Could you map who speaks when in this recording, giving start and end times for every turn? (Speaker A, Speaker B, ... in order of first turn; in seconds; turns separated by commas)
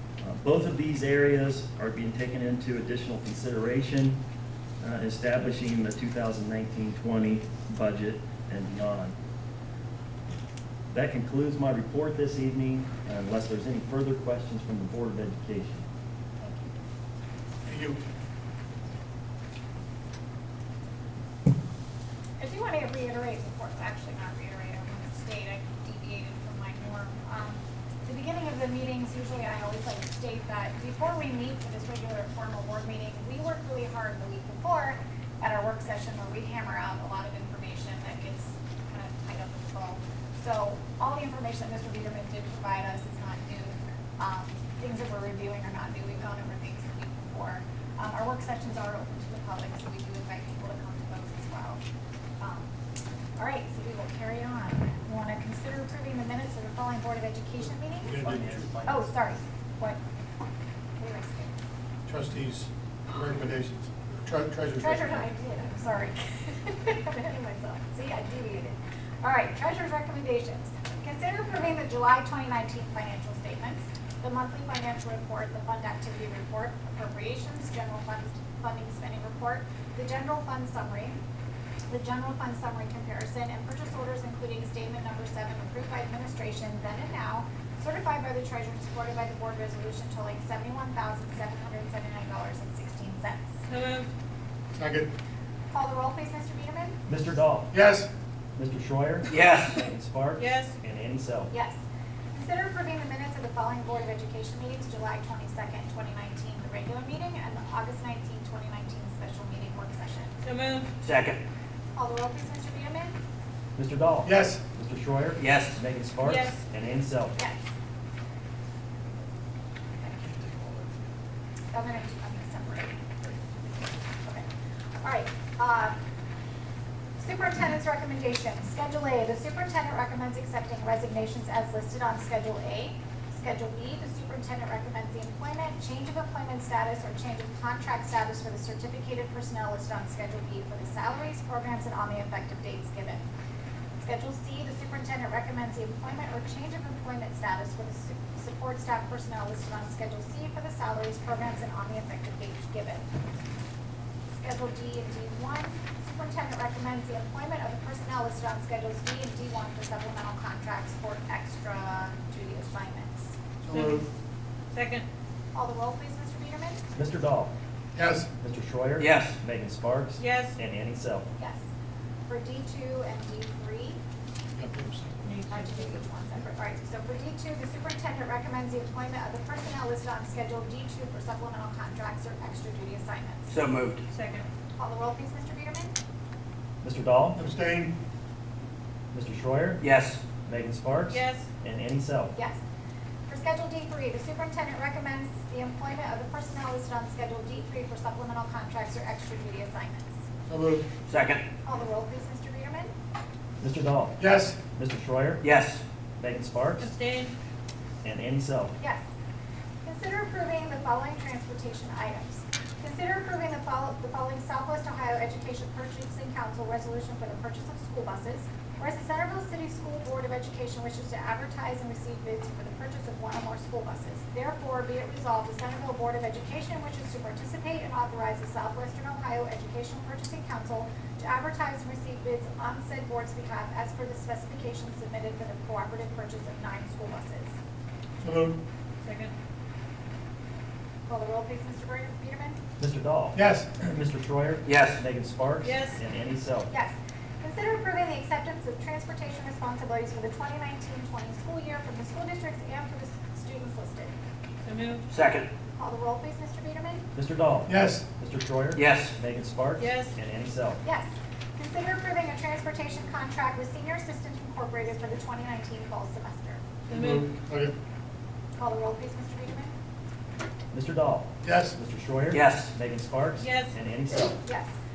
Speaker A: 0.2-4.2, Speaker A: 4.8-9.2, Speaker A: 10.9-15.9, Speaker B: 16.4-16.7, Speaker C: 17.6-18.0, Speaker B: 22.4-51.8, Speaker B: 52.4-52.7, Speaker B: 53.4-58.2, Speaker C: 58.0-58.7, Speaker A: 58.1-59.0, Speaker B: 58.8-60.0, Speaker B: 61.0-61.5, Speaker C: 62.1-65.3, Speaker B: 64.8-81.2, Speaker B: 81.9-93.6, Speaker D: 93.7-94.1, Speaker C: 94.8-95.1, Speaker B: 95.7-97.0, Speaker A: 97.1-97.7, Speaker C: 97.7-98.1, Speaker A: 98.5-101.5, Speaker E: 99.3-99.8, Speaker D: 100.4-100.7, Speaker B: 101.5-101.8, Speaker B: 102.3-110.4, Speaker D: 110.4-110.9, Speaker E: 111.0-111.4, Speaker B: 111.9-113.1, Speaker A: 113.8-117.3, Speaker C: 114.2-114.6, Speaker E: 115.4-115.8, Speaker D: 116.2-116.6, Speaker B: 121.7-123.0, Speaker B: 124.2-124.5, Speaker B: 125.0-126.0, Speaker B: 127.2-143.3, Speaker B: 144.0-153.1, Speaker B: 154.3-163.3, Speaker C: 163.6-164.0, Speaker D: 163.7-164.0, Speaker D: 164.7-165.1, Speaker B: 165.5-166.8, Speaker A: 166.9-167.5, Speaker C: 167.9-168.3, Speaker A: 168.4-171.3, Speaker E: 169.0-169.4, Speaker D: 170.2-170.5, Speaker B: 172.3-174.0, Speaker C: 174.6-175.2, Speaker D: 175.2-176.0, Speaker B: 175.5-183.5, Speaker E: 183.5-184.0, Speaker D: 184.1-184.4, Speaker B: 184.8-185.9, Speaker A: 186.8-187.4, Speaker C: 187.3-187.9, Speaker A: 189.1-189.8, Speaker E: 189.8-190.2, Speaker A: 190.4-192.3, Speaker D: 191.1-191.4, Speaker B: 192.3-192.6, Speaker B: 193.3-200.1, Speaker C: 200.5-200.8, Speaker E: 201.1-201.4, Speaker B: 201.6-202.9, Speaker A: 203.6-205.4, Speaker C: 204.2-204.6, Speaker E: 205.4-205.8, Speaker A: 206.2-206.9, Speaker D: 206.8-207.3, Speaker A: 208.0-208.7, Speaker B: 209.8-237.5, Speaker C: 238.2-238.6, Speaker D: 239.0-239.3, Speaker B: 241.1-242.6, Speaker A: 242.8-246.7, Speaker C: 243.3-243.7, Speaker E: 244.7-245.0, Speaker D: 245.6-245.9, Speaker B: 246.7-254.1, Speaker D: 254.6-255.0, Speaker E: 255.1-255.5, Speaker B: 255.8-257.1, Speaker A: 257.1-260.8, Speaker C: 257.7-258.0, Speaker E: 258.7-259.1, Speaker D: 259.8-260.1, Speaker B: 260.8-266.6, Speaker D: 266.9-267.3, Speaker C: 266.9-267.7, Speaker B: 268.6-269.7, Speaker A: 270.7-274.4, Speaker C: 271.4-271.7, Speaker E: 272.3-272.7, Speaker D: 273.4-273.7, Speaker B: 274.4-274.7